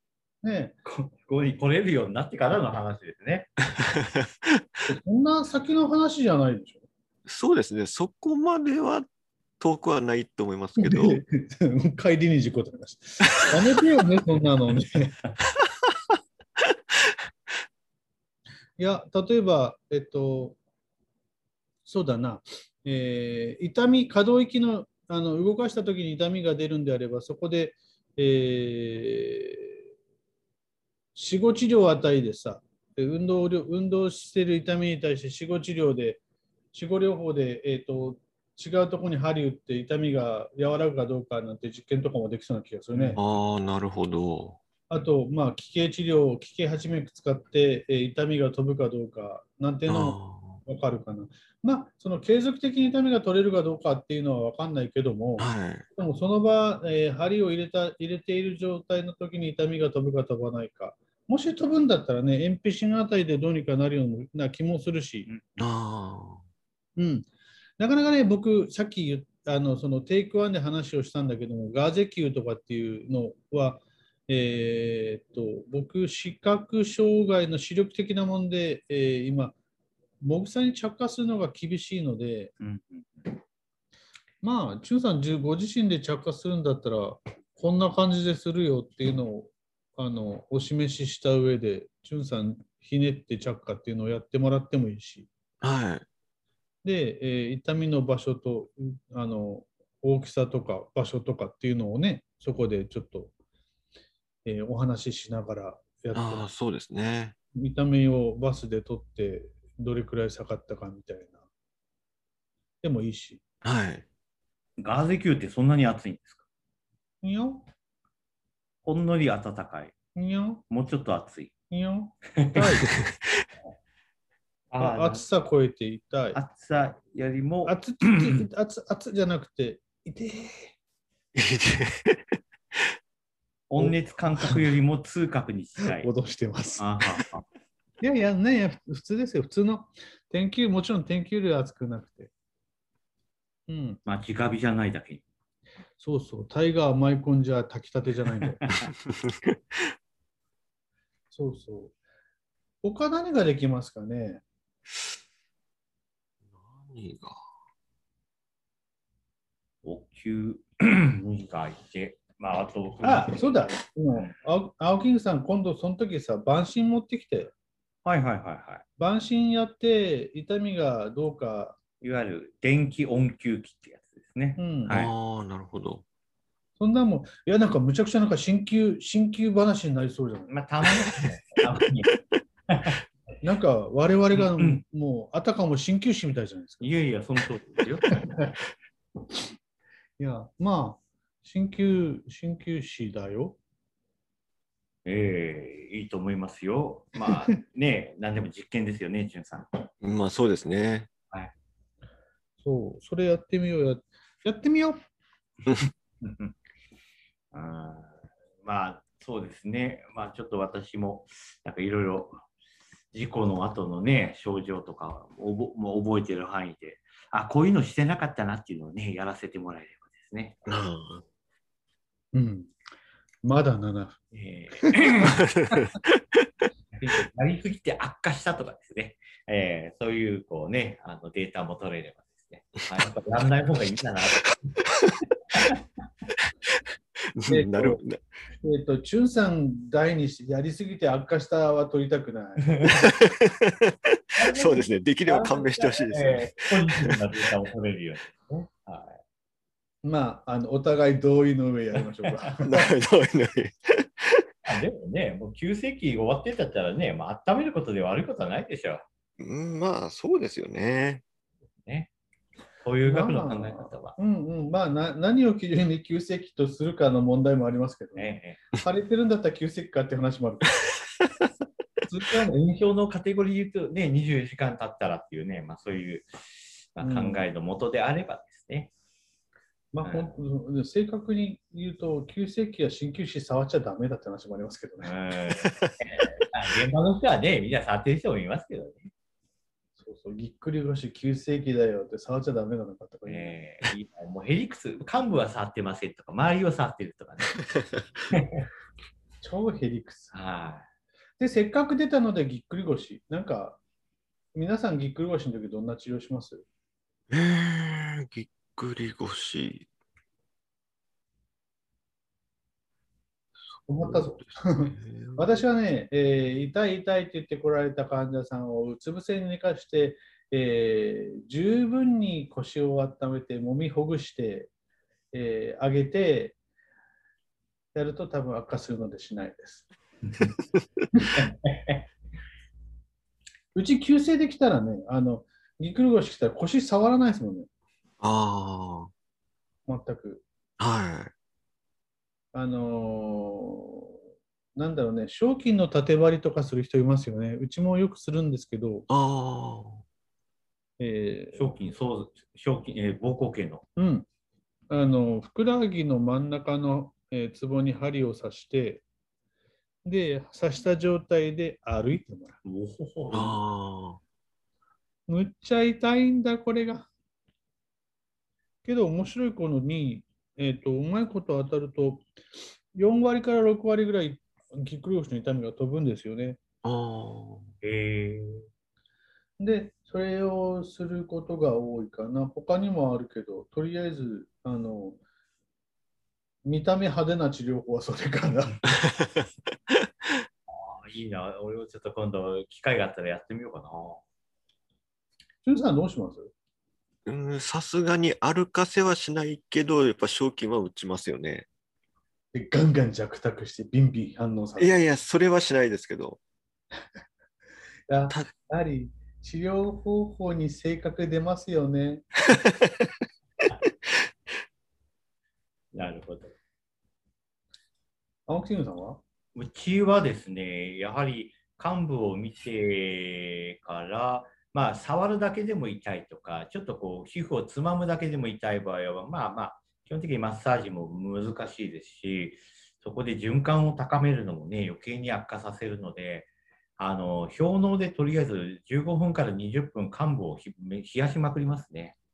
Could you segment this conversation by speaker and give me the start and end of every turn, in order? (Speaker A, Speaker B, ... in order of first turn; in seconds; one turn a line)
Speaker A: 0.4-0.8
Speaker B: 0.9-3.5
Speaker C: 3.8-4.6
Speaker A: 4.9-6.8
Speaker C: 7.3-9.1
Speaker C: 9.6-11.2
Speaker A: 10.8-15.2
Speaker A: 18.8-20.6
Speaker A: 21.9-29.8
Speaker A: 31.1-36.2
Speaker A: 36.7-43.2
Speaker B: 42.9-43.2
Speaker C: 43.2-44.6
Speaker A: 44.9-65.3
Speaker C: 49.9-50.6
Speaker C: 55.4-55.9
Speaker C: 65.6-66.4
Speaker A: 67.0-67.3
Speaker A: 67.8-79.5
Speaker A: 80.2-82.5
Speaker B: 82.6-83.4
Speaker A: 84.4-95.3
Speaker C: 95.6-96.1
Speaker A: 96.8-103.3
Speaker A: 104.5-106.5
Speaker C: 106.1-107.4
Speaker A: 107.5-111.4
Speaker A: 112.8-113.4
Speaker C: 113.6-114.0
Speaker B: 114.8-116.4
Speaker A: 117.2-117.7
Speaker B: 118.8-119.9
Speaker A: 120.2-120.6
Speaker B: 120.7-121.5
Speaker A: 121.7-122.9
Speaker B: 122.4-122.7
Speaker C: 122.6-123.5
Speaker B: 124.7-125.2
Speaker A: 124.8-126.4
Speaker B: 126.3-128.4
Speaker A: 127.7-130.8
Speaker C: 131.3-132.9
Speaker B: 133.7-136.1
Speaker A: 135.8-137.2
Speaker B: 136.8-137.4
Speaker A: 138.0-142.3
Speaker A: 143.7-144.0
Speaker B: 144.1-145.2
Speaker A: 146.0-148.8
Speaker C: 149.1-149.9
Speaker A: 151.3-151.9
Speaker A: 152.8-154.4
Speaker C: 156.5-157.4
Speaker B: 159.8-163.5
Speaker A: 163.0-167.5
Speaker B: 168.1-168.8
Speaker A: 169.0-171.8
Speaker B: 172.0-175.1
Speaker A: 174.6-175.0
Speaker C: 174.9-176.0
Speaker A: 176.8-180.5
Speaker B: 180.5-182.1
Speaker B: 182.7-183.0
Speaker A: 183.4-186.9
Speaker B: 184.3-184.8
Speaker B: 186.8-188.2
Speaker A: 188.2-188.5
Speaker A: 190.2-193.6
Speaker B: 195.1-199.9
Speaker C: 200.0-201.1
Speaker A: 202.6-205.0
Speaker B: 206.2-206.5
Speaker B: 207.5-212.4
Speaker B: 213.1-220.6
Speaker C: 220.7-221.2
Speaker A: 222.3-222.7
Speaker A: 223.4-224.2
Speaker B: 224.3-225.4
Speaker C: 225.4-226.5
Speaker B: 226.9-234.8
Speaker B: 235.5-235.8
Speaker C: 237.3-238.2
Speaker A: 237.5-238.0
Speaker A: 238.6-243.0
Speaker B: 242.7-243.1
Speaker C: 243.0-247.2
Speaker B: 244.4-249.2
Speaker A: 250.0-252.9
Speaker C: 252.6-254.5
Speaker B: 254.7-259.1
Speaker C: 259.4-261.2
Speaker B: 261.8-262.1
Speaker B: 262.8-264.2
Speaker A: 263.0-270.8
Speaker B: 268.2-268.6
Speaker B: 272.1-278.9
Speaker A: 277.0-277.4
Speaker A: 279.9-285.1
Speaker B: 280.0-280.4
Speaker B: 285.0-289.1
Speaker C: 285.6-285.9
Speaker A: 290.0-293.6
Speaker B: 293.3-297.6
Speaker B: 298.3-298.7
Speaker A: 299.4-300.3
Speaker B: 300.3-300.9
Speaker A: 301.4-303.8
Speaker A: 304.5-306.6
Speaker C: 307.3-309.9
Speaker A: 313.9-324.7
Speaker C: 314.0-315.6
Speaker A: 325.3-326.6
Speaker A: 327.9-329.9
Speaker B: 331.4-332.1
Speaker A: 333.8-337.7
Speaker C: 338.2-339.1
Speaker A: 339.9-340.4
Speaker C: 340.8-341.3
Speaker A: 342.5-344.0
Speaker A: 344.8-349.1
Speaker C: 349.1-350.0
Speaker A: 351.0-351.7
Speaker B: 351.6-353.9
Speaker A: 354.0-354.3
Speaker A: 354.9-359.0
Speaker A: 360.1-362.6
Speaker B: 362.6-363.6
Speaker C: 363.3-364.2
Speaker A: 365.3-367.1
Speaker A: 368.9-372.2
Speaker A: 372.9-376.6
Speaker C: 376.8-377.7
Speaker B: 377.8-378.7
Speaker A: 379.6-385.2
Speaker A: 386.6-388.9
Speaker C: 389.1-390.4
Speaker B: 390.7-394.2
Speaker A: 395.6-396.5
Speaker C: 397.3-401.7
Speaker A: 402.5-404.9
Speaker C: 404.8-406.4
Speaker A: 408.1-412.2
Speaker C: 412.6-413.1
Speaker B: 415.9-416.6
Speaker A: 418.5-419.2
Speaker B: 419.6-442.2